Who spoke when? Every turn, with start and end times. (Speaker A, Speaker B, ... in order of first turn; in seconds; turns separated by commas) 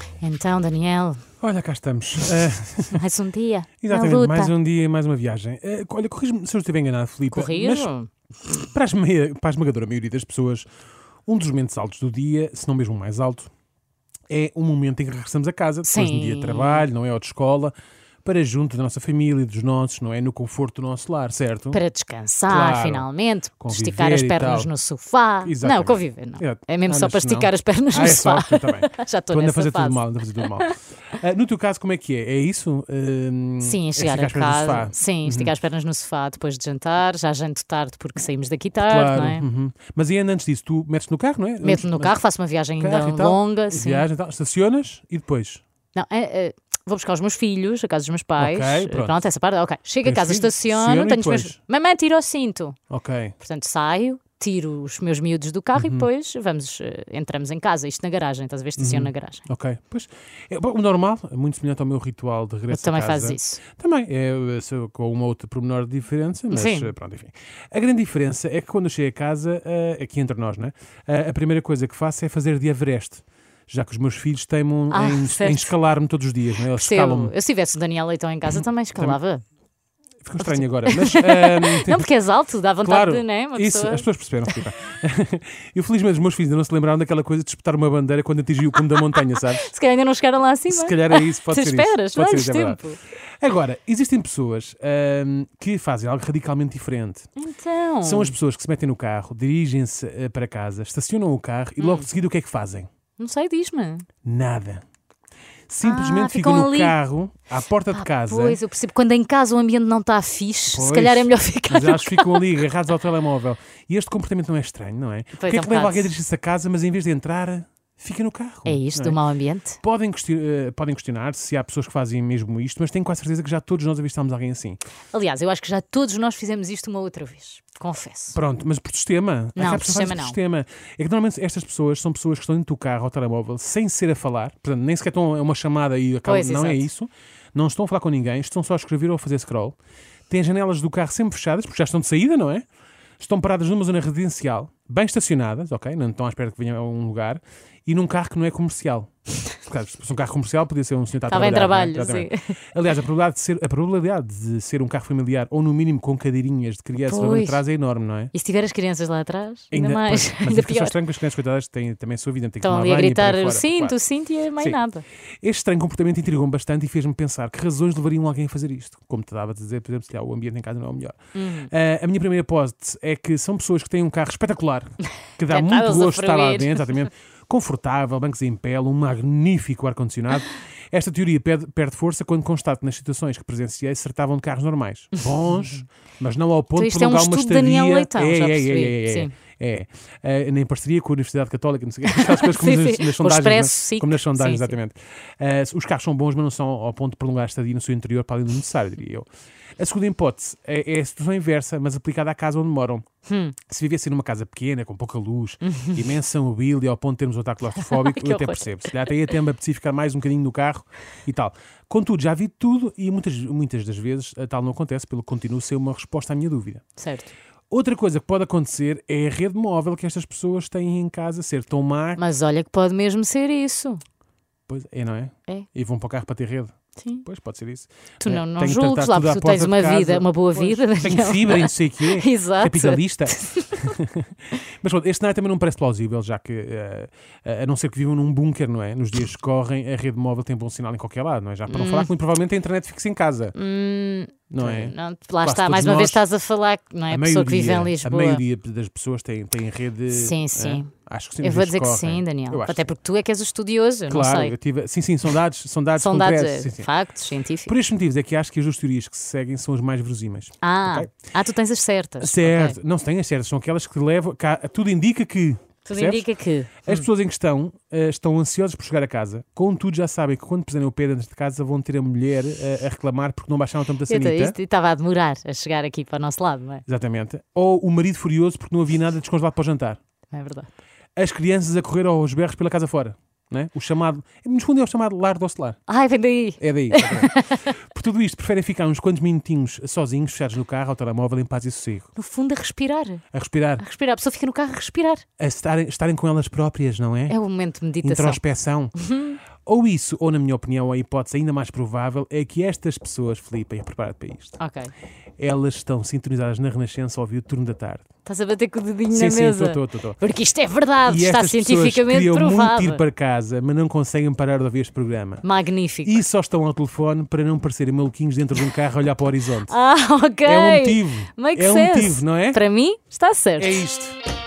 Speaker A: 0.2-1.2, Speaker B: 1.4-3.0, Speaker A: 2.9-4.5, Speaker B: 3.8-7.9, Speaker A: 7.3-8.1, Speaker B: 8.6-10.7, Speaker B: 11.3-13.5, Speaker B: 14.3-21.8, Speaker A: 15.8-16.9, Speaker A: 21.7-30.7, Speaker B: 22.5-23.1, Speaker B: 23.6-24.7, Speaker B: 25.4-35.5, Speaker A: 33.6-39.5, Speaker B: 38.8-42.2, Speaker A: 41.6-44.1, Speaker B: 42.8-45.6, Speaker A: 45.9-52.8, Speaker B: 48.4-49.2, Speaker B: 50.0-51.6, Speaker B: 52.9-53.4, Speaker A: 53.4-59.4, Speaker B: 55.8-56.1, Speaker B: 58.8-77.3, Speaker A: 62.7-63.6, Speaker A: 66.5-66.9, Speaker A: 74.9-75.7, Speaker A: 76.7-79.4, Speaker B: 78.5-79.2, Speaker B: 80.2-82.1, Speaker A: 80.4-84.1, Speaker B: 82.8-89.7, Speaker A: 89.3-93.0, Speaker B: 90.7-92.8, Speaker B: 93.4-97.3, Speaker A: 97.4-98.4, Speaker B: 98.0-102.9, Speaker A: 101.8-102.1, Speaker A: 103.2-104.1, Speaker B: 104.2-104.8, Speaker B: 105.7-108.6, Speaker A: 105.8-107.0, Speaker A: 107.9-112.5, Speaker B: 110.7-119.2, Speaker A: 115.4-116.1, Speaker A: 118.7-119.8, Speaker B: 119.8-124.8, Speaker A: 125.1-128.4, Speaker B: 128.3-139.8, Speaker A: 129.6-130.4, Speaker A: 136.2-136.9, Speaker B: 140.3-142.7, Speaker B: 143.2-149.1, Speaker B: 149.6-158.3, Speaker A: 151.3-152.5, Speaker A: 157.0-157.6, Speaker A: 158.3-161.0, Speaker B: 159.7-164.0, Speaker A: 162.6-165.0, Speaker B: 165.4-171.2, Speaker A: 171.3-171.7, Speaker B: 171.7-203.1, Speaker A: 175.5-177.0, Speaker A: 186.8-189.3, Speaker A: 192.1-194.8, Speaker A: 203.3-203.6, Speaker B: 203.7-216.8, Speaker A: 205.6-206.1, Speaker A: 207.8-209.3, Speaker A: 217.0-217.3, Speaker B: 217.7-222.2, Speaker A: 222.2-224.0, Speaker B: 224.7-243.6, Speaker A: 227.0-227.2, Speaker A: 228.2-233.9, Speaker A: 241.7-242.1, Speaker A: 243.6-248.4, Speaker B: 244.5-246.2, Speaker B: 247.1-252.9, Speaker A: 250.1-254.6, Speaker B: 254.1-256.9, Speaker A: 256.0-257.7, Speaker B: 257.7-261.1, Speaker A: 260.6-262.8, Speaker B: 262.2-266.3, Speaker A: 265.9-267.1, Speaker B: 266.8-274.6, Speaker A: 274.1-276.9, Speaker B: 276.9-280.0, Speaker A: 280.3-280.7, Speaker B: 281.2-285.8, Speaker A: 285.9-287.7, Speaker B: 286.6-292.1, Speaker A: 292.1-293.2, Speaker B: 293.3-293.8, Speaker A: 293.8-295.2, Speaker B: 295.4-297.4, Speaker A: 297.3-298.4, Speaker B: 298.0-298.9, Speaker A: 299.0-299.4, Speaker B: 299.6-304.6, Speaker A: 304.6-304.9, Speaker B: 305.4-308.1, Speaker A: 308.2-313.0, Speaker B: 309.1-310.2, Speaker B: 311.0-315.4, Speaker A: 315.4-316.2, Speaker B: 316.0-319.8, Speaker A: 319.7-323.9, Speaker B: 320.4-322.6, Speaker B: 323.6-324.2